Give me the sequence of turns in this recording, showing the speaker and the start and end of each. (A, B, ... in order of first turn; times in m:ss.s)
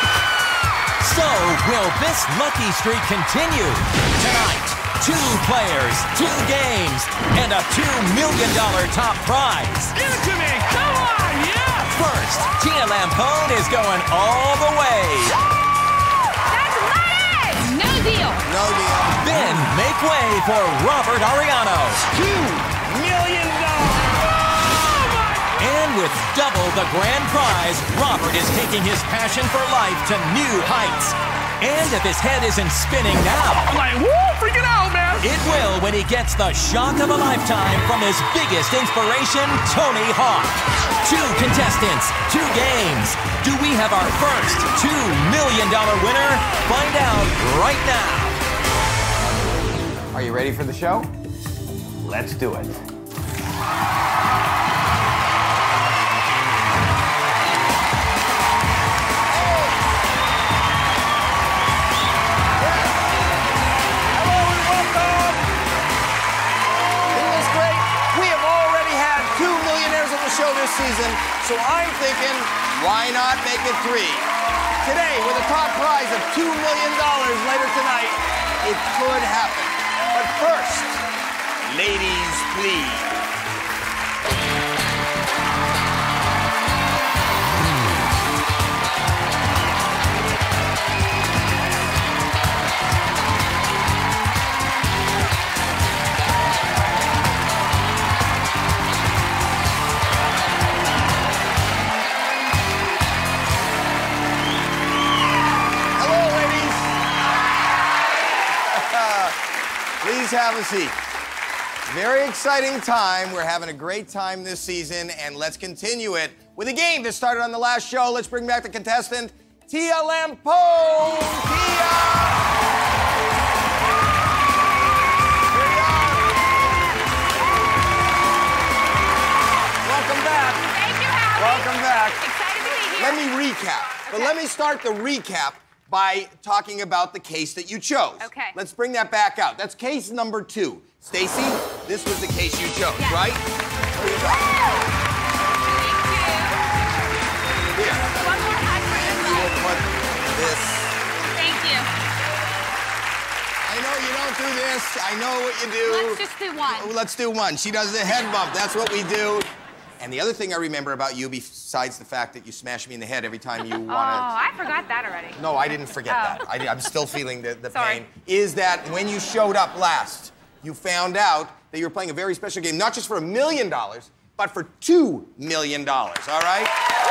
0:01.0-0:09.9 A
0:09.9-0:12.0 B
0:11.9-0:15.4 A
0:16.5-0:18.4 C
0:18.4-0:19.7 D
0:19.2-0:22.0 A
0:22.1-0:24.3 D
0:24.6-0:25.6 B
0:25.6-0:33.8 A
0:33.7-0:35.3 B
0:35.2-0:48.4 A
0:50.1-0:51.1 D
0:52.0-0:52.8 D
0:59.3-0:59.8 D
1:02.6-1:03.0 D
1:04.1-1:05.5 D
1:07.1-1:21.1 D
1:21.6-1:23.1 D
1:45.9-1:47.0 D
1:48.6-1:49.4 D
1:50.0-1:51.0 D
1:51.9-2:02.5 D
2:05.5-2:06.3 D
2:09.8-2:10.7 D
2:10.7-2:13.2 C
2:11.3-2:12.2 D
2:12.9-2:24.8 D
2:14.1-2:14.3 C
2:18.2-2:18.6 C
2:23.0-2:23.2 C
2:25.6-2:26.5 C
2:27.7-2:28.2 D
2:28.0-2:29.6 C
2:28.9-2:31.0 D
2:31.3-2:31.9 C
2:33.6-2:39.5 D
2:35.8-2:36.9 C
2:40.0-2:44.3 D
2:43.9-2:45.4 C
2:45.4-2:56.7 D
2:46.1-2:46.4 C
2:47.7-2:48.0 C